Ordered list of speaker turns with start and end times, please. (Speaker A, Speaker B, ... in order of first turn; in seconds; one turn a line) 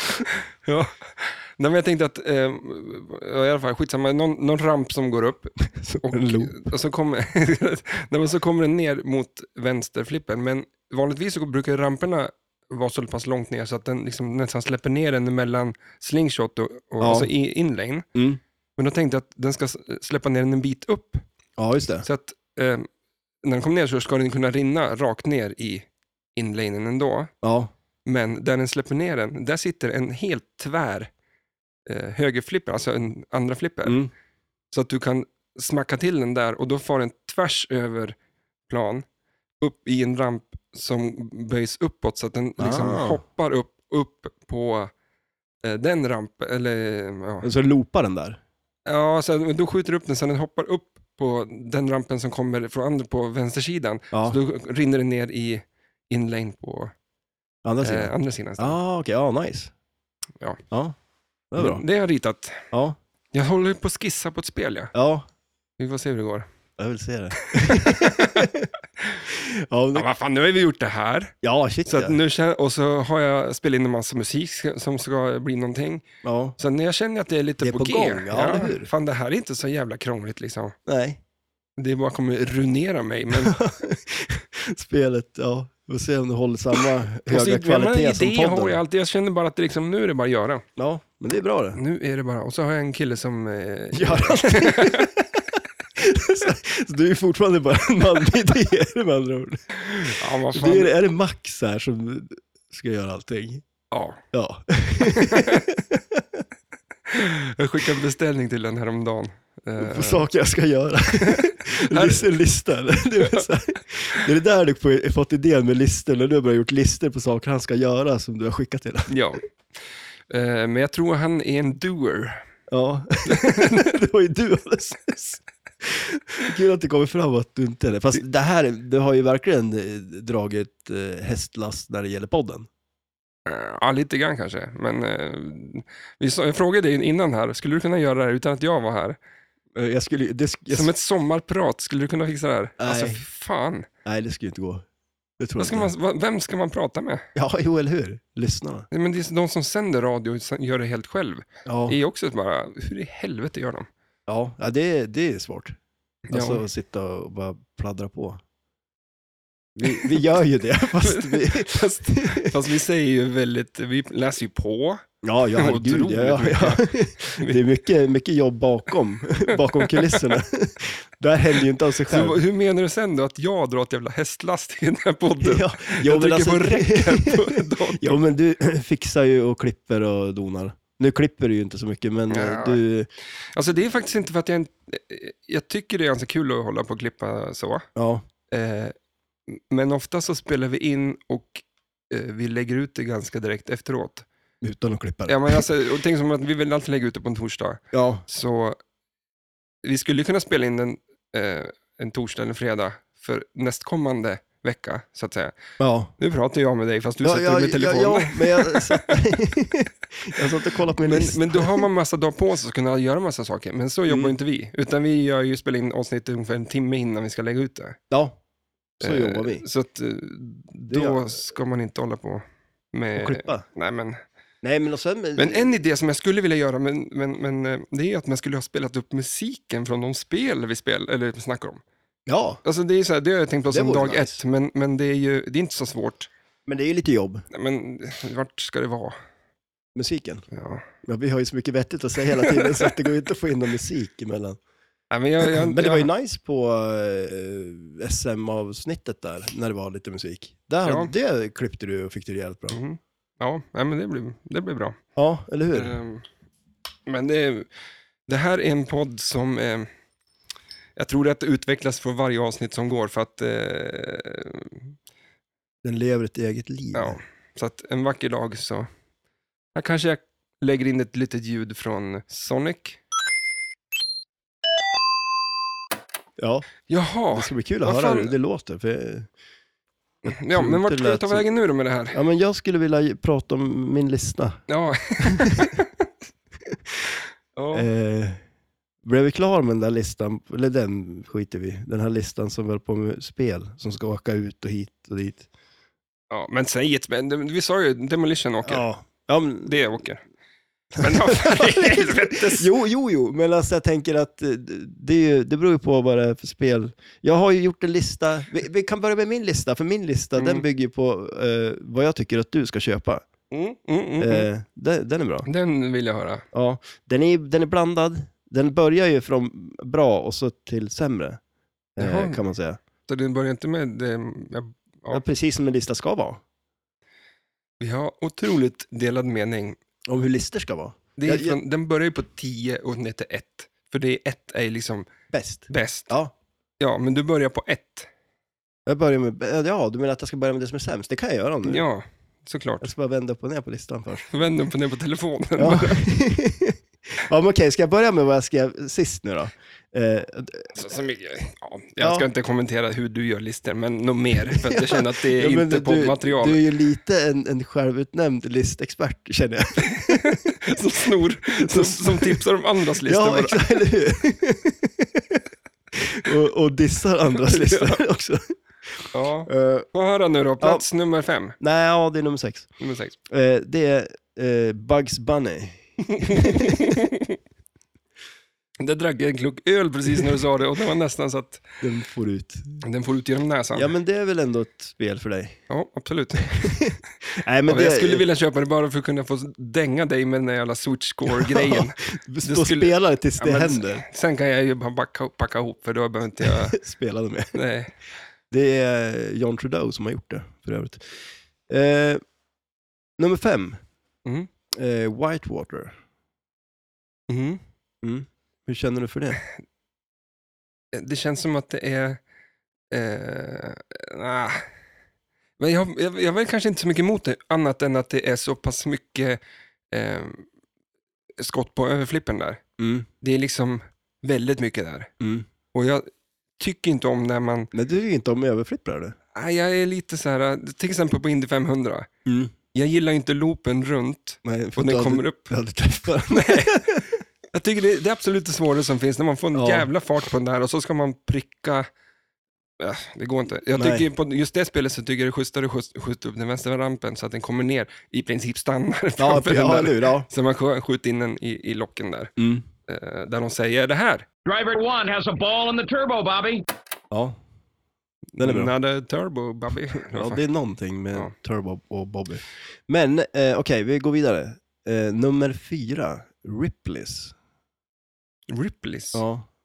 Speaker A: 0.6-18.1
Speaker B: 5.8-6.7
Speaker B: 17.0-17.3
Speaker B: 18.1-18.4
Speaker A: 18.8-21.2
Speaker B: 21.6-22.1
Speaker A: 22.0-22.9
Speaker A: 23.4-27.3
Speaker B: 27.4-27.7
Speaker A: 28.1-31.1
Speaker A: 31.9-34.0
Speaker B: 33.9-34.1
Speaker A: 34.7-38.2
Speaker A: 38.7-39.0
Speaker A: 39.6-44.9
Speaker B: 42.6-43.2
Speaker A: 45.6-47.5
Speaker B: 47.4-48.4
Speaker A: 48.9-56.9
Speaker B: 54.1-54.4
Speaker B: 57.6-59.7
Speaker A: 57.8-58.8
Speaker B: 61.5-61.8
Speaker A: 61.6-62.7
Speaker B: 62.7-63.0
Speaker A: 63.3-64.9
Speaker B: 64.9-65.2
Speaker A: 65.8-66.5
Speaker B: 66.8-68.7
Speaker A: 67.6-68.5
Speaker B: 69.3-70.1
Speaker A: 69.9-71.3
Speaker B: 71.4-72.2
Speaker A: 71.9-76.1
Speaker B: 76.2-76.6
Speaker A: 76.6-80.8
Speaker B: 77.6-78.9
Speaker B: 80.9-81.2
Speaker A: 81.8-83.6
Speaker B: 83.3-88.8
Speaker A: 87.3-90.7
Speaker B: 90.8-91.8
Speaker A: 91.7-95.1
Speaker B: 93.9-95.4
Speaker B: 96.0-103.7
Speaker A: 99.9-100.9
Speaker A: 103.9-104.2
Speaker B: 104.3-106.4
Speaker A: 105.0-105.7
Speaker A: 107.1-110.2
Speaker B: 109.8-119.1
Speaker A: 111.2-112.3
Speaker A: 119.1-119.5
Speaker A: 120.3-122.4
Speaker B: 122.7-132.7
Speaker A: 123.3-123.9
Speaker A: 133.5-139.2
Speaker B: 139.8-140.9
Speaker A: 140.7-143.9
Speaker B: 142.8-143.2
Speaker B: 144.1-144.8
Speaker B: 145.4-145.9
Speaker A: 145.6-147.2
Speaker B: 147.3-148.9
Speaker A: 148.9-153.9
Speaker B: 151.7-152.0
Speaker B: 154.3-155.8
Speaker A: 156.3-156.6
Speaker B: 156.3-158.4
Speaker B: 159.8-162.6
Speaker A: 159.8-160.2
Speaker A: 161.0-167.6
Speaker B: 165.2-172.4
Speaker A: 169.6-170.2
Speaker A: 172.1-178.2
Speaker B: 175.4-183.1
Speaker A: 182.3-182.8
Speaker A: 183.5-187.9
Speaker B: 188.0-188.2
Speaker A: 188.5-188.9
Speaker A: 189.5-194.2
Speaker B: 194.6-195.7
Speaker A: 195.3-198.8
Speaker B: 197.9-198.2
Speaker A: 199.8-205.6
Speaker B: 205.8-206.1
Speaker A: 206.2-209.2
Speaker B: 207.2-211.9
Speaker A: 211.0-218.0
Speaker B: 214.1-214.3
Speaker B: 218.1-218.4
Speaker B: 219.0-219.7
Speaker A: 219.0-224.2
Speaker B: 220.9-221.2
Speaker B: 223.2-223.7
Speaker B: 224.6-225.7
Speaker A: 225.4-231.8
Speaker B: 232.3-232.6
Speaker A: 232.6-236.3
Speaker B: 233.7-234.4
Speaker B: 236.7-237.4
Speaker A: 237.5-239.2
Speaker B: 239.9-240.4
Speaker A: 240.5-240.9
Speaker B: 241.0-244.6
Speaker A: 242.4-242.9
Speaker A: 245.1-246.1
Speaker B: 245.4-252.8
Speaker A: 250.8-251.1
Speaker A: 252.7-255.0
Speaker B: 255.2-256.0
Speaker A: 255.7-256.2
Speaker A: 257.1-257.7
Speaker A: 258.3-259.9
Speaker A: 261.0-264.9
Speaker B: 265.8-267.2
Speaker A: 266.9-268.9
Speaker A: 269.8-273.0
Speaker B: 276.4-276.7
Speaker A: 276.9-278.3
Speaker B: 277.3-279.3
Speaker B: 280.2-281.5
Speaker A: 280.2-282.2
Speaker B: 282.1-284.6
Speaker A: 284.7-285.9
Speaker B: 285.2-285.7
Speaker B: 286.7-287.1
Speaker A: 287.6-287.9
Speaker B: 287.7-288.4
Speaker B: 289.0-295.5
Speaker A: 296.3-298.9
Speaker B: 298.6-299.7
Speaker A: 299.6-300.2
Speaker A: 301.0-302.7
Speaker B: 301.0-313.3
Speaker A: 310.4-310.6
Speaker A: 313.5-314.5
Speaker B: 314.2-315.5
Speaker A: 315.4-316.4
Speaker B: 316.5-321.4
Speaker B: 322.0-322.8
Speaker A: 322.0-322.5
Speaker A: 323.1-325.2
Speaker B: 325.1-326.4
Speaker A: 327.8-329.8
Speaker B: 330.1-331.6
Speaker A: 331.2-335.1
Speaker B: 335.3-336.3
Speaker A: 335.7-336.1
Speaker A: 336.8-338.1
Speaker B: 338.9-341.8
Speaker A: 341.6-342.9
Speaker B: 342.8-344.3
Speaker A: 344.3-346.1
Speaker B: 345.6-350.7
Speaker A: 350.8-356.6
Speaker B: 352.0-352.3
Speaker B: 354.5-360.5
Speaker A: 359.9-363.6
Speaker B: 361.6-362.4
Speaker B: 363.1-365.4
Speaker B: 365.9-369.9
Speaker A: 367.5-368.0
Speaker A: 369.1-371.6
Speaker B: 371.6-372.7
Speaker A: 372.8-373.1
Speaker B: 373.3-377.0
Speaker A: 376.1-377.4
Speaker A: 378.8-381.7
Speaker B: 381.8-382.8
Speaker A: 382.8-383.9
Speaker B: 383.8-385.6
Speaker A: 385.7-386.8
Speaker B: 386.5-388.2
Speaker A: 387.7-396.8
Speaker B: 391.3-394.1
Speaker B: 396.4-397.6
Speaker A: 397.5-397.9
Speaker B: 398.5-402.2
Speaker B: 403.2-403.8
Speaker B: 404.7-405.9
Speaker A: 407.3-407.6
Speaker B: 408.0-409.4
Speaker A: 410.9-412.2
Speaker A: 412.9-414.7
Speaker A: 415.6-419.4
Speaker A: 419.9-420.5
Speaker A: 421.4-422.6
Speaker B: 422.8-423.1
Speaker A: 423.2-425.1
Speaker B: 425.2-425.5
Speaker A: 425.7-426.1
Speaker A: 426.6-427.7
Speaker B: 427.7-429.2
Speaker A: 429.4-432.1
Speaker B: 432.3-432.5
Speaker A: 432.7-435.5
Speaker B: 434.4-437.2
Speaker A: 436.3-437.0
Speaker A: 437.5-441.9
Speaker B: 439.5-439.9
Speaker A: 442.8-452.3
Speaker B: 443.8-444.1
Speaker B: 449.2-450.3
Speaker B: 452.4-452.6
Speaker A: 452.9-454.2
Speaker C: 454.5-456.6
Speaker B: 457.1-457.4
Speaker A: 458.4-460.4
Speaker B: 458.4-458.7
Speaker B: 460.0-467.4
Speaker A: 468.5-469.2
Speaker B: 469.1-469.5